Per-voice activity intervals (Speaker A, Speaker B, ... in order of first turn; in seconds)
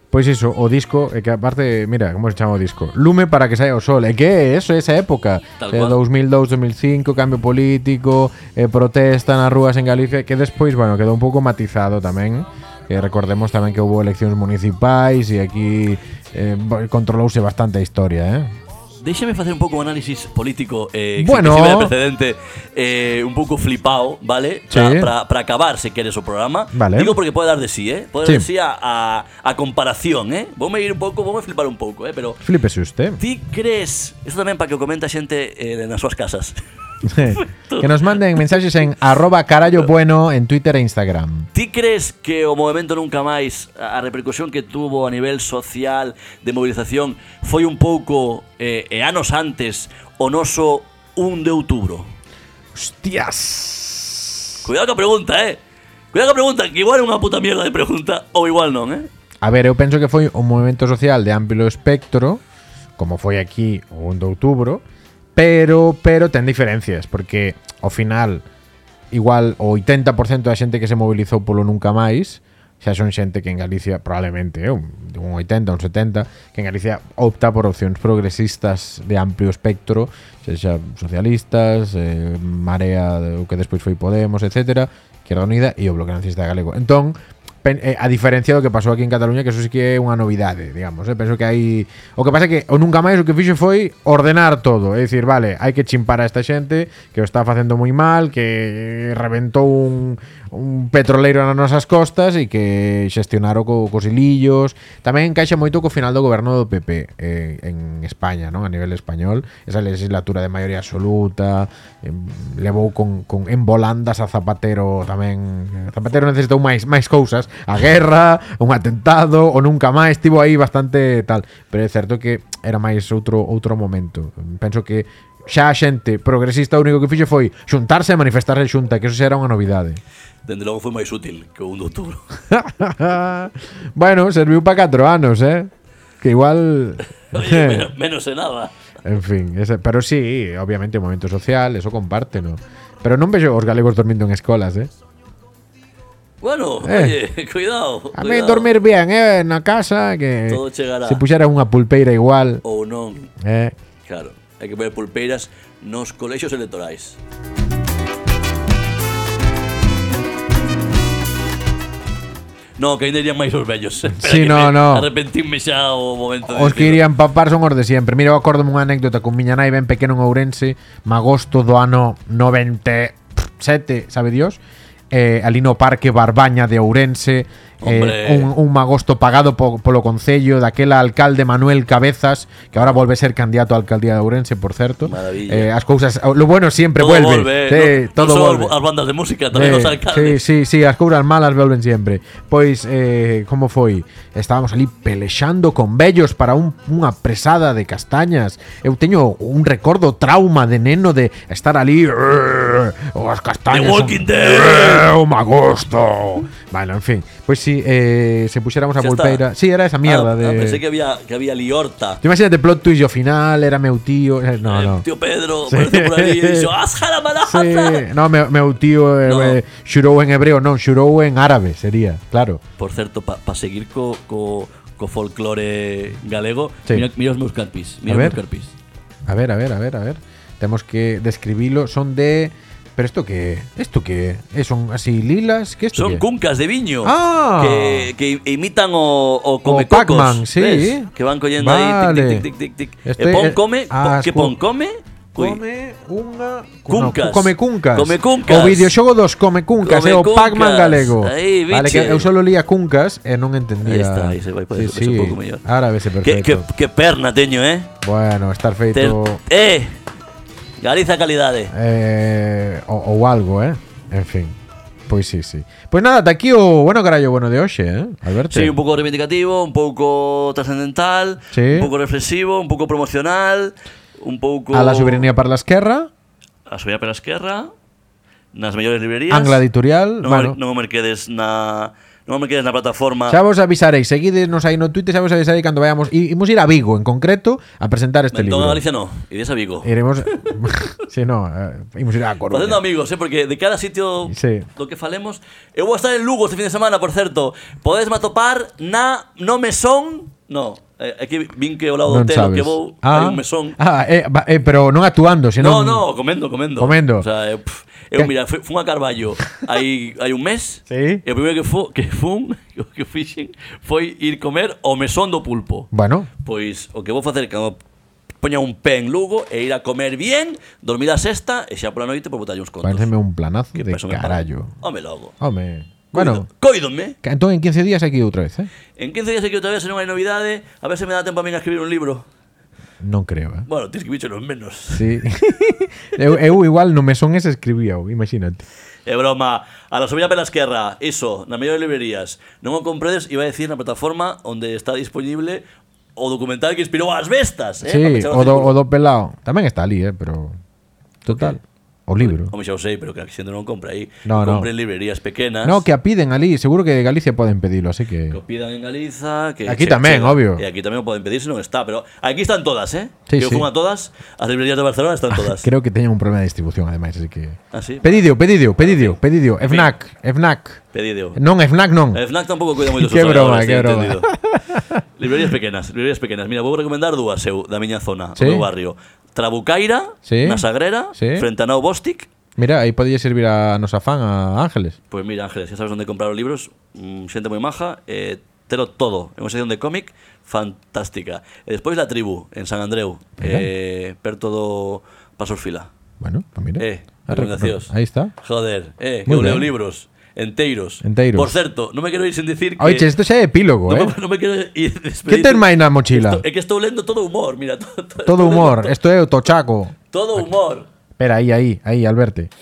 Speaker A: 0.1-18.5, 21.2-21.9, 24.7-25.1, 26.7-27.1, 32.4-33.2, 37.0-41.5, 52.7-54.6, 59.4-62.4, 63.0-64.8, 65.3-68.4, 69.1-130.0, 132.5-137.9, 139.0-144.9, 146.8-147.2, 148.1-152.6, 153.4-153.7, 164.1-165.1, 166.4-174.6, 175.1-188.8, 189.5-210.8, 212.2-215.0, 215.7-216.7, 217.4-222.6, 228.1-228.4, 229.3-236.2, 237.0-238.1, 239.7-242.5, 243.0-244.5, 245.3-256.7, 258.0-259.4, 261.7-264.5, 265.1-268.7, 271.5-271.9, 274.7-276.1, 279.3-280.6, 283.3-288.8, 289.8-292.8, 294.3-294.7, 302.1-306.0, 306.8-307.2, 310.9-311.2, 315.9-316.3, 322.8-324.7, 325.4-326.5, 327.2-328.7, 333.0-333.7, 334.9-338.6, 347.8-350.6, 351.2-352.5, 354.2-354.7, 355.6-358.4, 359.6-360.6, 363.3-363.7, 365.3-370.8, 371.3-372.2, 372.9-375.0, 378.4-378.6, 380.2-380.6, 381.1-381.4, 382.6-384.9, 393.4-393.7, 396.2-398.3, 399.2-399.7, 401.0-401.6, 402.8-404.1, 405.3-406.4, 408.2-409.9, 411.2-412.5
Speaker B: 5.6-6.0, 19.0-32.4, 33.2-36.6, 37.2-38.4, 41.5-52.1, 54.6-55.6, 56.1-59.1, 130.4-132.2, 137.3-138.7, 146.4-148.7, 150.5-151.2, 152.6-153.3, 154.0-157.2, 162.8-167.0, 177.8-178.5, 185.0-185.7, 187.0-190.4, 203.7-205.1, 208.9-209.4, 210.0-212.2, 214.6-218.1, 219.2-219.6, 222.8-228.7, 235.9-245.6, 246.9-248.9, 249.8-252.3, 253.8-255.6, 256.2-257.9, 258.9-260.0, 260.8-261.7, 268.5-275.3, 276.7-277.7, 278.5-279.6, 280.2-283.4, 288.3-289.9, 290.5-290.9, 292.5-303.8, 305.6-315.9, 316.4-317.8, 318.4-323.1, 323.7-325.3, 326.1-327.1, 329.0-332.3, 333.6-335.1, 339.1-345.6, 346.1-348.8, 351.3-351.6, 352.2-355.9, 358.3-365.7, 367.7-369.9, 370.9-371.4, 372.1-374.3, 375.2-382.3, 385.1-395.9, 396.8-403.1, 403.9-409.0, 410.1-410.9